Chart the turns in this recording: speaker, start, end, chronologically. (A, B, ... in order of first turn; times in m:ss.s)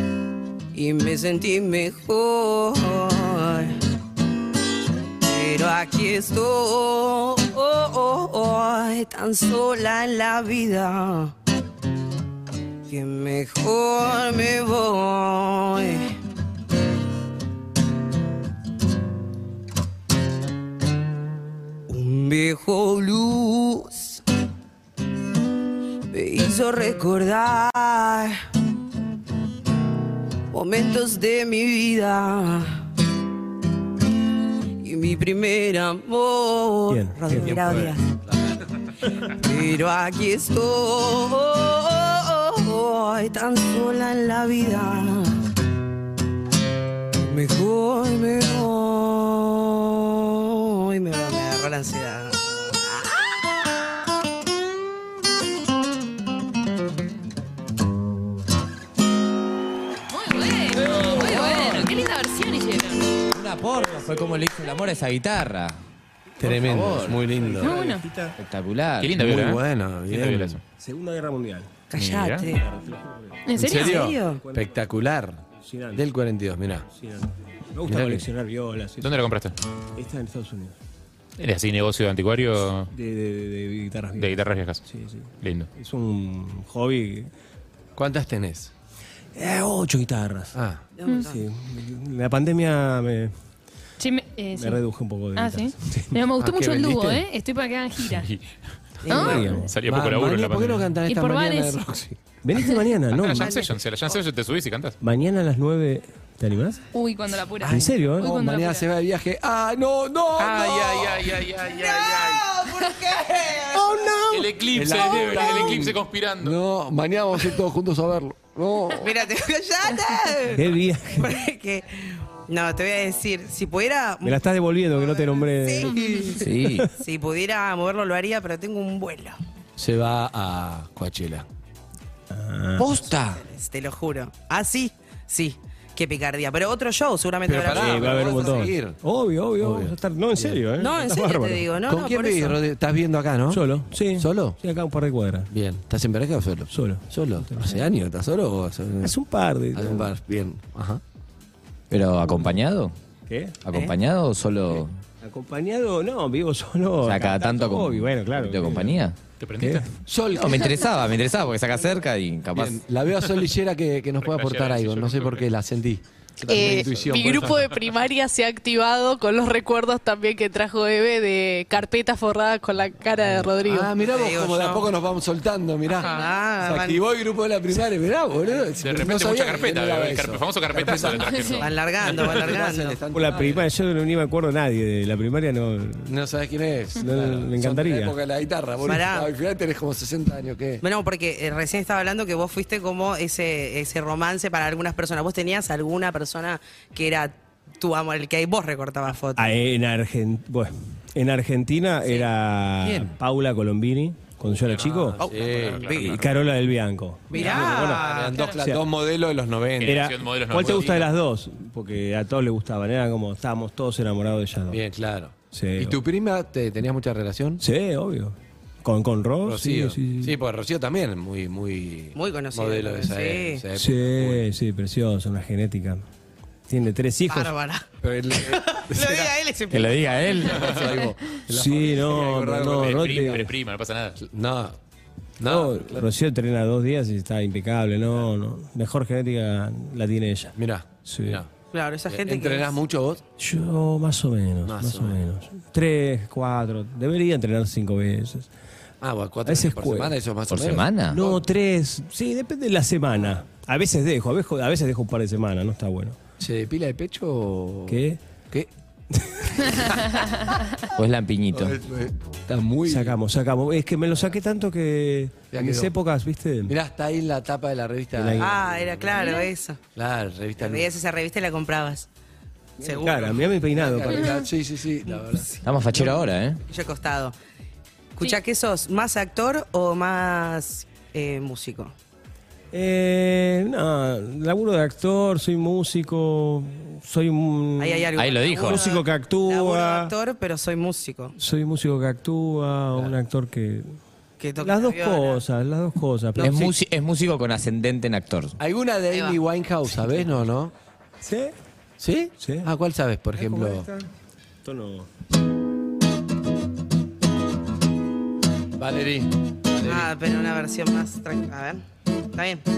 0:00.7-0:03.8 A
0:05.2-0:11.3 A
0:12.9-0:16.2 A
0:21.9-0:24.2 A
0:26.1-0:28.4 A
0:30.5-0:32.8 A
0:34.8-0:38.0 A
0:36.9-0:37.9 B
0:37.4-0:38.6 C
0:39.1-0:45.4 A
0:47.2-0:53.4 A
1:00.1-1:03.1 D
1:00.9-1:01.9 E
1:03.3-1:05.8 E
1:06.4-1:07.7 C
1:06.4-1:07.2 E
1:07.3-1:08.4 B
1:07.6-1:08.0 D
1:08.4-1:09.2 E
1:09.0-1:10.6 F
1:09.2-1:10.6 C
1:10.8-1:11.7 B
1:11.9-1:12.6 A
1:11.9-1:12.5 F
1:12.5-1:13.4 B
1:13.5-1:14.1 D
1:13.6-1:15.4 C
1:13.6-1:14.4 A
1:14.3-1:14.7 B
1:15.6-1:16.0 B
1:15.9-1:16.9 C
1:16.9-1:19.2 B
1:17.9-1:18.3 C
1:19.0-1:19.5 F
1:20.0-1:20.8 B
1:21.4-1:22.9 F
1:22.9-1:27.3 B
1:24.2-1:24.8 F
1:25.4-1:25.7 F
1:28.0-1:28.7 C
1:29.3-1:30.5 B
1:30.5-1:30.8 C
1:31.0-1:31.4 A
1:31.2-1:33.3 B
1:34.0-1:34.8 D
1:34.6-1:36.1 B
1:35.3-1:38.3 D
1:36.4-1:37.2 C
1:38.1-1:38.4 F
1:39.0-1:39.4 A
1:39.1-1:39.6 D
1:39.1-1:39.7 B
1:39.7-1:40.9 F
1:39.8-1:42.2 C
1:41.1-1:41.9 D
1:42.4-1:43.6 B
1:43.1-1:45.0 F
1:43.3-1:44.2 A
1:45.0-1:46.8 B
1:46.9-1:48.8 D
1:47.6-1:51.4 C
1:47.6-1:48.3 B
1:50.4-1:52.4 F
1:51.6-1:54.1 A
1:53.7-1:54.5 B
1:54.3-1:56.6 F
1:54.7-1:59.3 C
1:58.9-2:09.4 A
2:00.5-2:01.3 B
2:04.2-2:05.9 B
2:06.0-2:06.2 D
2:06.4-2:06.9 E
2:06.5-2:06.9 B
2:09.8-2:11.5 C
2:12.3-2:12.9 B
2:12.8-2:13.4 C
2:12.9-2:18.6 A
2:17.4-2:19.0 C
2:17.7-2:21.7 B
2:19.6-2:20.6 C
2:20.8-2:22.6 A
2:21.9-2:24.6 C
2:23.5-2:25.5 B
2:25.5-2:29.1 C
2:26.7-2:27.8 B
2:29.0-2:30.1 B
2:29.7-2:31.0 C
2:31.9-2:32.9 E
2:33.3-2:33.6 B
2:33.6-2:34.9 E
2:35.2-2:39.0 B
2:37.0-2:39.1 E
2:39.4-2:39.9 F
2:39.6-2:39.8 B
2:40.0-2:40.9 C
2:40.3-2:42.8 E
2:42.5-2:47.6 C
2:44.2-2:45.5 F
2:46.5-2:53.9 G
2:47.2-2:47.7 F
2:53.6-3:03.6 C
2:54.0-2:54.9 A
2:56.0-2:57.0 A
2:58.8-3:01.7 F
3:01.3-3:01.6 D
3:01.6-3:03.0 A
3:03.1-3:06.1 B
3:06.0-3:10.8 C
3:06.9-3:08.2 B
3:08.8-3:09.3 A
3:10.8-3:19.5 A
3:19.4-3:25.2 B
3:22.8-3:23.2 C
3:24.6-3:26.4 F
3:24.8-3:26.2 C
3:25.2-3:26.1 A
3:26.0-3:28.0 B
3:27.3-3:28.4 A
3:27.3-3:30.1 C
3:28.3-3:28.6 D
3:29.8-3:31.1 F
3:29.8-3:34.8 B
3:30.6-3:31.0 C
3:34.7-3:37.6 C
3:35.5-3:36.0 B
3:37.6-3:40.4 B
3:39.4-3:44.4 C
3:42.1-3:43.6 A
3:43.7-3:46.0 B
3:46.7-3:47.5 B
3:47.3-3:50.7 A
3:48.0-3:49.4 C
3:49.7-3:50.7 E
3:50.4-3:53.4 C
3:51.5-3:53.4 B
3:52.7-3:54.2 F
3:54.2-3:54.8 C
3:55.4-3:56.1 C
3:55.4-4:00.5 B
4:00.6-4:01.5 C
4:01.0-4:01.4 B
4:01.7-4:02.8 A
4:02.1-4:03.2 C
4:03.4-4:08.5 B
4:04.6-4:05.2 C
4:09.0-4:11.4 C
4:09.4-4:10.1 B
4:10.5-4:11.2 E
4:11.1-4:16.2 B
4:16.4-4:18.7 C
4:17.9-4:18.2 B
4:19.1-4:19.8 B
4:20.9-4:21.8 E
4:21.5-4:23.2 C
4:22.8-4:26.7 B
4:25.5-4:25.9 C
4:26.6-4:29.2 C
4:28.2-4:28.5 B
4:28.4-4:29.8 A
4:29.2-4:29.5 D
4:29.9-4:30.9 C
4:30.6-4:32.1 A
4:32.8-4:34.4 B
4:32.8-4:33.4 A
4:33.6-4:35.6 C
4:35.6-4:36.6 E
4:36.7-4:37.3 A
4:38.2-4:41.9 A
4:42.7-4:48.1 B
4:47.8-4:51.3 A
4:48.2-4:48.8 E
4:48.6-4:50.1 B
4:51.4-4:53.9 B
4:54.4-4:55.4 A
4:54.6-4:56.7 B
4:56.3-4:56.7 A
4:56.4-4:58.6 E
4:58.6-5:00.7 C
4:59.1-4:59.4 A
5:01.2-5:01.5 B
5:02.0-5:03.9 C
5:02.4-5:02.7 B
5:03.4-5:04.1 B
5:04.6-5:05.1 B
5:08.8-5:10.1 C
5:09.8-5:12.6 A